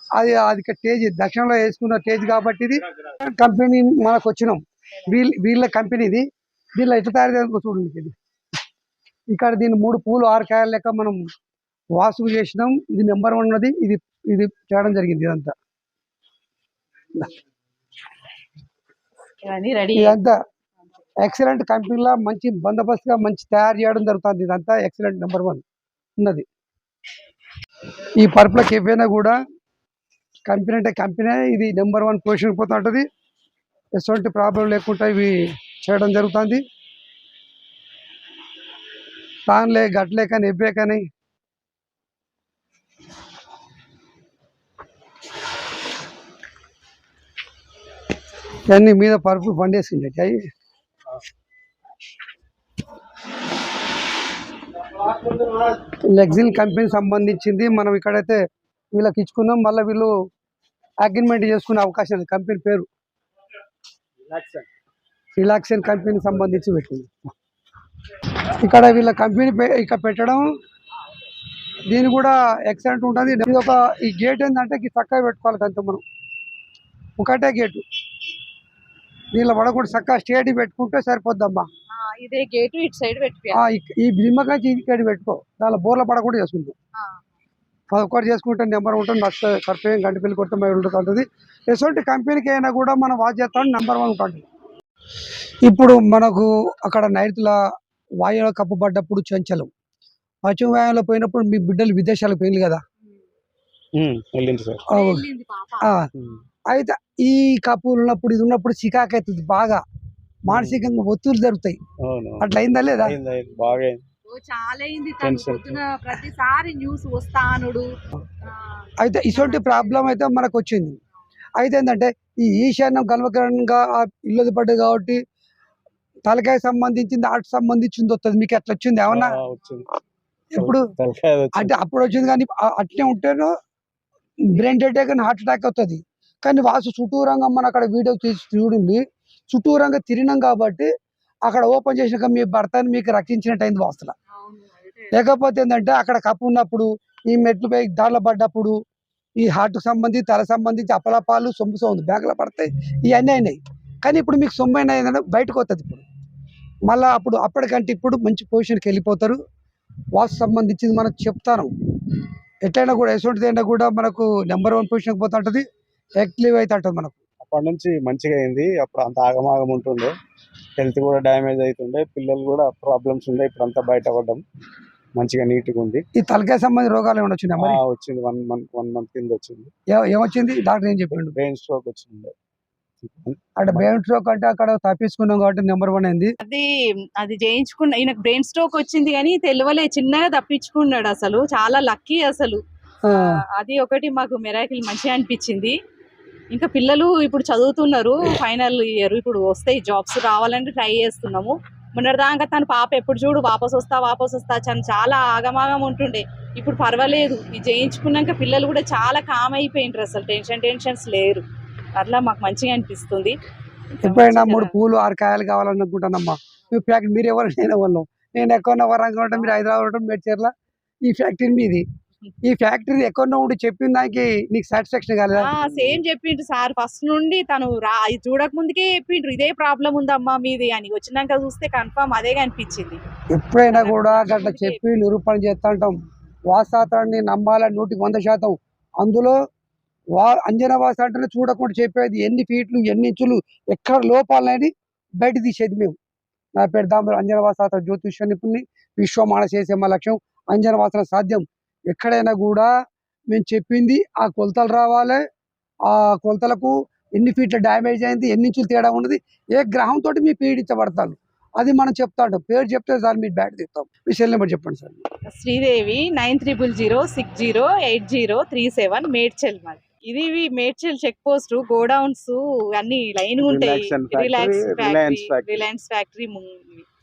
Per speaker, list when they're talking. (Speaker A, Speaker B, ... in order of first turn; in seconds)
Speaker A: 0.1-6.2, 6.8-8.1, 9.3-11.2, 11.9-15.6, 19.9-20.4, 21.2-25.6, 26.2-26.4, 28.2-29.4, 30.5-33.1, 34.0-36.6, 39.5-41.0, 48.7-50.4, 56.1-58.4, 58.9-60.1, 61.0-62.9, 65.4-67.3, 68.6-70.5, 71.9-76.0, 77.2-77.8, 79.3-81.7, 83.5-86.7, 87.9-94.4, 95.6-97.6, 98.2-99.7, 100.5-102.8, 104.9-105.3, 105.8-106.1, 106.7-109.8, 110.5-111.8, 112.4-113.2, 119.0-121.0, 121.6-125.2, 126.3-129.4, 130.5-130.9, 131.5-133.5, 134.4-140.9, 141.4-144.1, 145.1-148.8, 149.4-156.0, 156.9-159.4, 160.2-161.7, 162.7-165.7, 166.2-167.2, 176.2-177.8, 179.9-181.4, 183.6-186.3, 193.1-193.4, 214.0-220.5, 221.1-221.8, 222.4-225.6, 233.3-236.0, 236.5-239.4, 240.1-246.0, 246.6-252.7, 253.3-255.2, 255.8-265.0
Speaker B: 19.4-20.2, 81.9-83.6, 87.0-87.2, 104.9-105.9, 114.3-117.9, 119.3-120.1, 144.4-145.2, 187.2-195.8, 196.5-211.4, 212.0-213.4, 214.0-214.7, 225.4-233.0, 233.7-234.8, 265.3-276.9
Speaker C: 64.3-64.7, 104.0-104.8, 110.5-110.8, 112.0-112.5, 113.0-114.0, 115.2-115.8, 129.1-129.9, 130.6-131.7, 167.4-170.1, 170.8-174.4, 175.2-176.0, 177.6-179.7, 181.3-182.3, 183.0-183.8, 225.6-225.9, 273.4-275.7